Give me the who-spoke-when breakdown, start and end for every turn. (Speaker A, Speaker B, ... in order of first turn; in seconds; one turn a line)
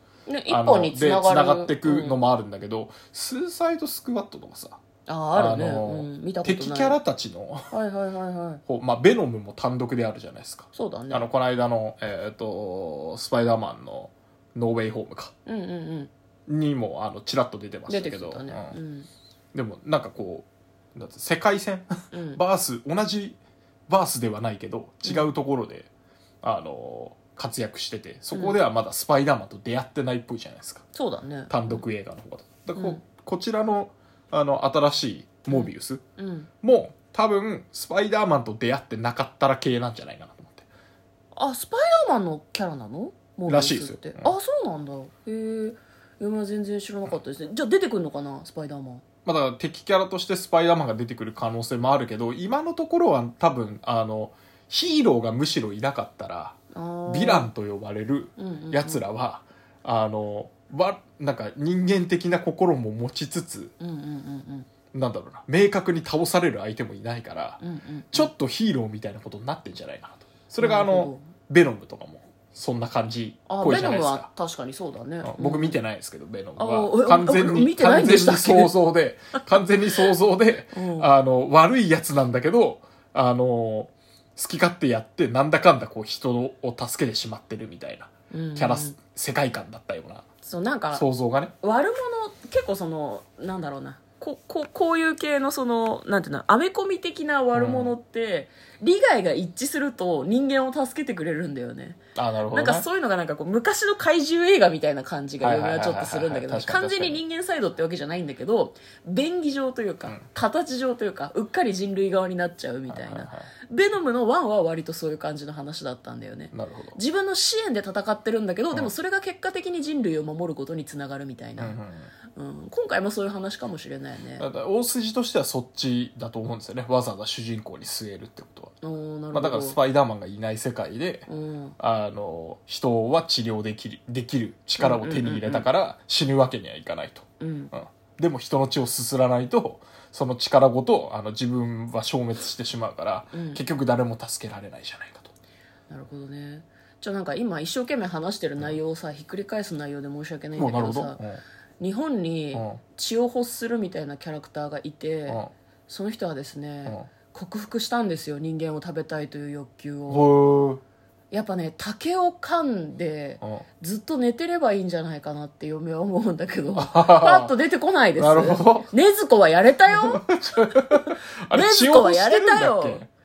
Speaker A: 0.3-2.2
Speaker B: 0.5-4.8
Speaker A: 5.1-7.0
Speaker B: 5.3-7.7
Speaker A: 7.7-8.6
Speaker B: 8.7-15.3
Speaker A: 10.7-11.3
Speaker A: 15.5-16.1
Speaker B: 16.5-18.8
Speaker A: 17.9-19.1
Speaker B: 19.5-25.9
Speaker A: 22.1-22.4
Speaker B: 26.4-30.9
Speaker A: 28.3-28.6
Speaker A: 30.9-31.8
Speaker B: 31.5-36.0
Speaker A: 35.5-36.5
Speaker B: 36.6-40.7
Speaker A: 41.4-49.0
Speaker B: 43.5-44.4
Speaker B: 49.2-63.7
Speaker A: 56.7-57.5
Speaker A: 58.4-59.0
Speaker A: 63.8-64.7
Speaker B: 64.9-74.3
Speaker A: 67.6-68.3
Speaker A: 70.6-71.3
Speaker A: 73.5-75.8
Speaker B: 75.2-90.3
Speaker A: 76.6-78.7
Speaker A: 80.7-81.1
Speaker A: 88.3-89.0
Speaker A: 90.4-91.0
Speaker B: 90.9-91.5
Speaker A: 91.6-102.0
Speaker B: 97.5-97.9
Speaker B: 102.2-102.9
Speaker A: 102.5-121.8
Speaker B: 105.4-107.2
Speaker B: 112.9-113.5
Speaker B: 116.5-117.0
Speaker B: 121.6-122.1
Speaker A: 122.3-124.5
Speaker B: 124.4-128.8
Speaker A: 128.8-129.8
Speaker B: 129.3-145.3
Speaker A: 131.3-131.8
Speaker A: 134.8-135.7
Speaker A: 137.4-137.7
Speaker A: 143.3-143.6
Speaker A: 145.9-151.2
Speaker B: 150.6-151.4
Speaker A: 151.8-160.3
Speaker B: 152.5-152.8
Speaker B: 155.3-155.5
Speaker B: 160.1-160.8
Speaker A: 161.3-170.2
Speaker B: 166.8-167.5
Speaker B: 168.2-168.9
Speaker B: 169.9-173.1
Speaker A: 171.5-173.0